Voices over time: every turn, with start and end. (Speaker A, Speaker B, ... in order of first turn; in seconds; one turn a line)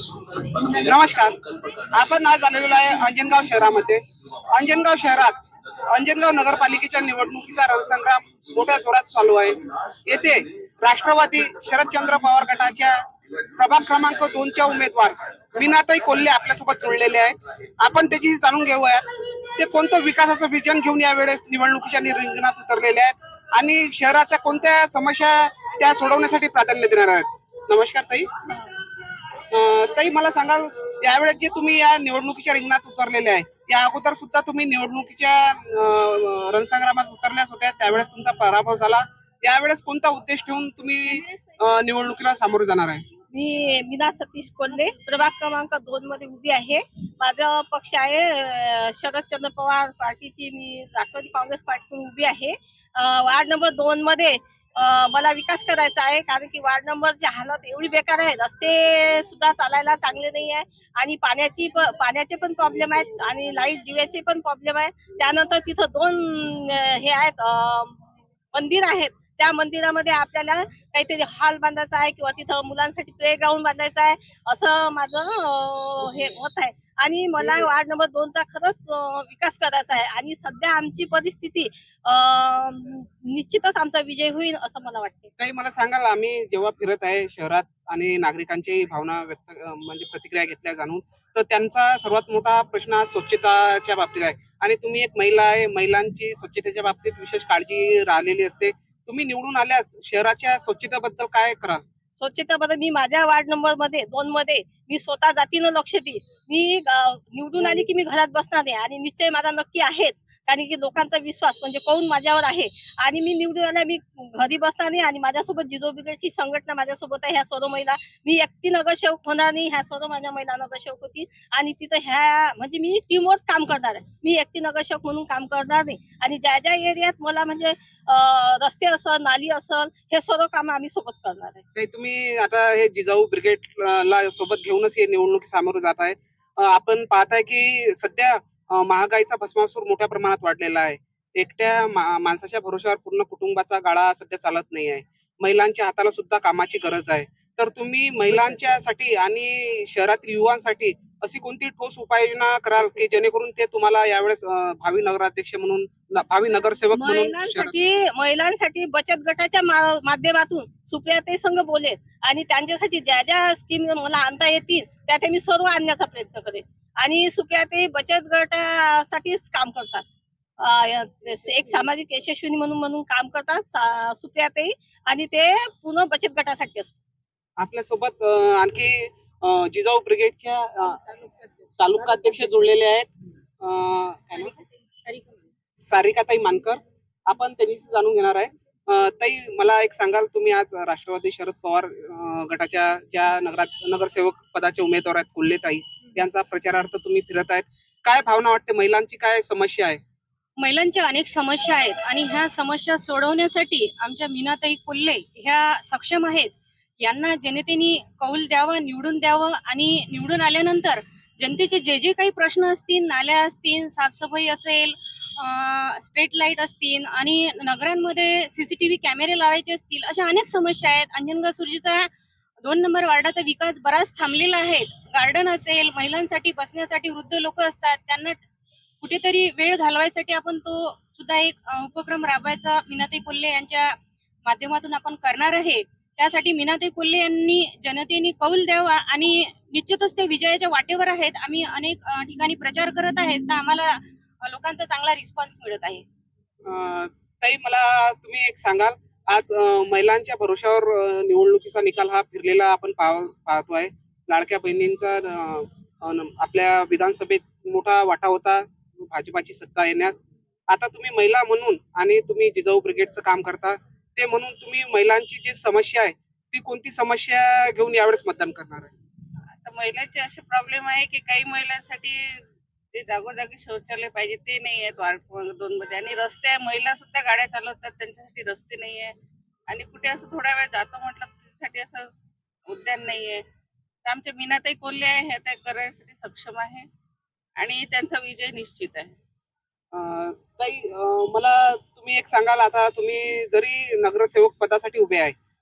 Speaker A: 0.7-5.4
Speaker A: 5.9-13.0
Speaker A: 13.6-19.1
Speaker A: 19.6-28.3
Speaker A: 29.5-43.0
Speaker B: 43.3-85.3
Speaker A: 85.4-101.8
Speaker B: 102.2-131.6
Speaker A: 131.7-157.7
Speaker B: 156.9-170.0
Speaker B: 170.6-176.9
Speaker A: 177.6-181.0
Speaker A: 181.8-184.5
Speaker A: 185.8-200.0
Speaker C: 200.6-222.1
Speaker C: 222.6-228.4
Speaker C: 229.0-246.0
Speaker A: 246.6-268.9
Speaker D: 269.6-279.1
Speaker D: 279.7-283.4
Speaker D: 284.0-286.9
Speaker D: 287.6-289.1
Speaker A: 289.9-295.3